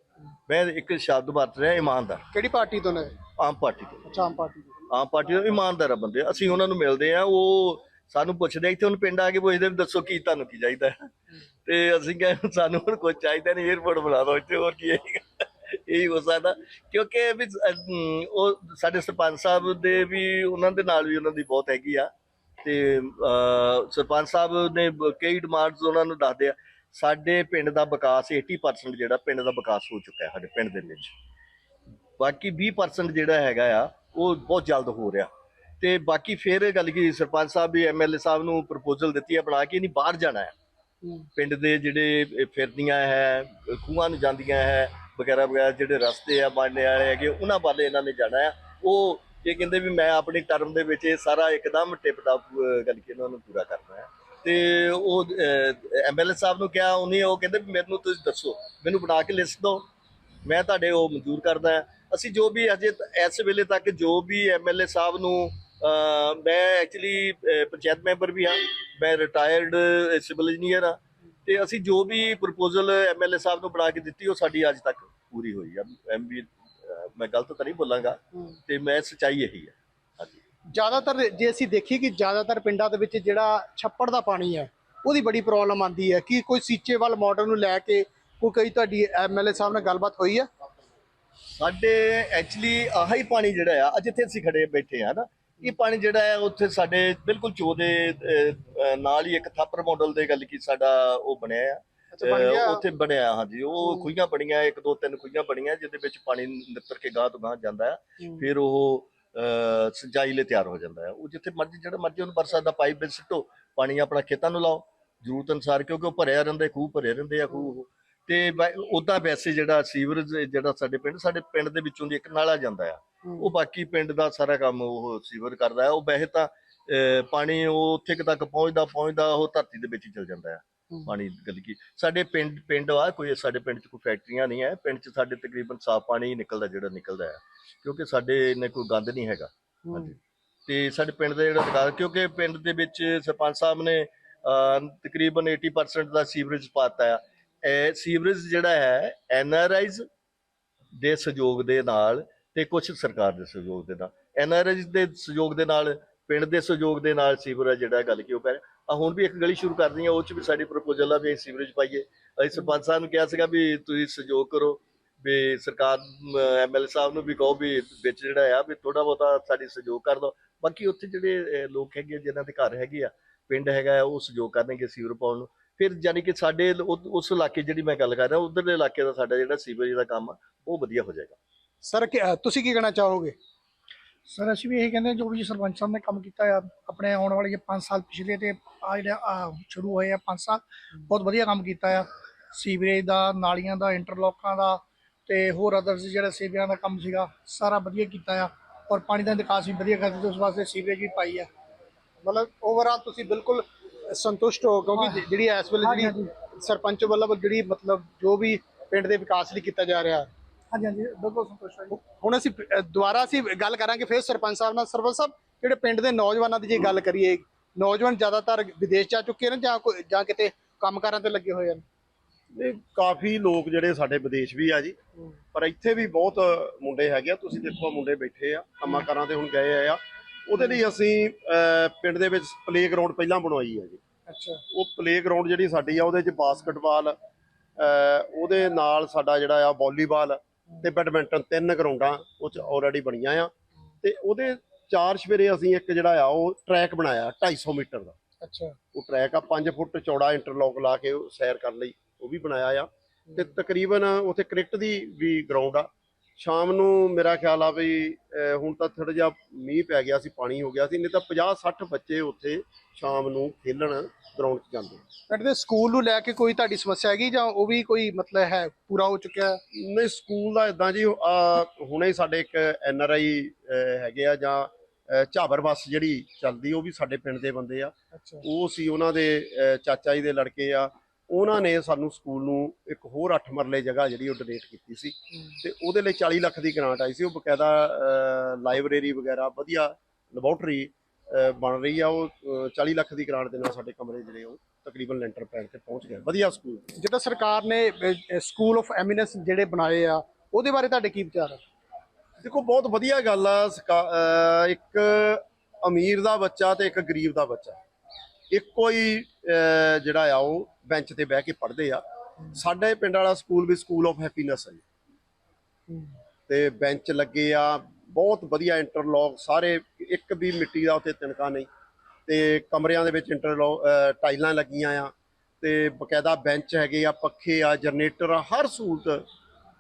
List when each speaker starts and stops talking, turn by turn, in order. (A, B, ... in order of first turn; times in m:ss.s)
0:00.5-0:02.2 A
0:02.3-0:03.1 B
0:03.4-0:04.0 A
0:04.1-0:04.8 B
0:04.9-0:11.0 A
0:11.7-0:22.1 A
0:22.6-0:31.1 A
0:32.2-0:40.5 A
0:41.4-0:59.9 A
1:00.4-1:20.4 A
1:20.7-1:30.5 B
1:31.6-2:30.0 A
1:42.1-1:42.8 B
1:48.2-1:48.5 B
2:03.2-2:03.5 B
2:19.9-2:20.1 B
2:31.0-3:01.4 A
3:01.8-3:03.4 B
3:04.3-3:21.5 C
3:22.2-3:30.3 B
3:25.0-3:25.2 C
3:25.8-3:26.3 C
3:30.7-3:31.9 C
3:31.9-3:41.8 B
3:42.5-3:45.0 D
3:45.5-3:54.0 D
3:54.3-3:54.6 B
3:54.7-3:57.2 D
3:57.8-4:03.5 D
4:04.0-4:08.2 D
4:08.4-4:08.8 B
4:08.9-4:25.0 D
4:13.3-4:13.6 B
4:25.3-4:29.6 B
4:29.8-4:56.9 D
4:38.1-4:38.4 B
4:45.3-4:45.6 B
4:57.0-5:01.6 B
5:02.4-5:07.8 D
5:08.5-5:14.8 D
5:16.5-5:21.7 D
5:22.3-5:29.2 D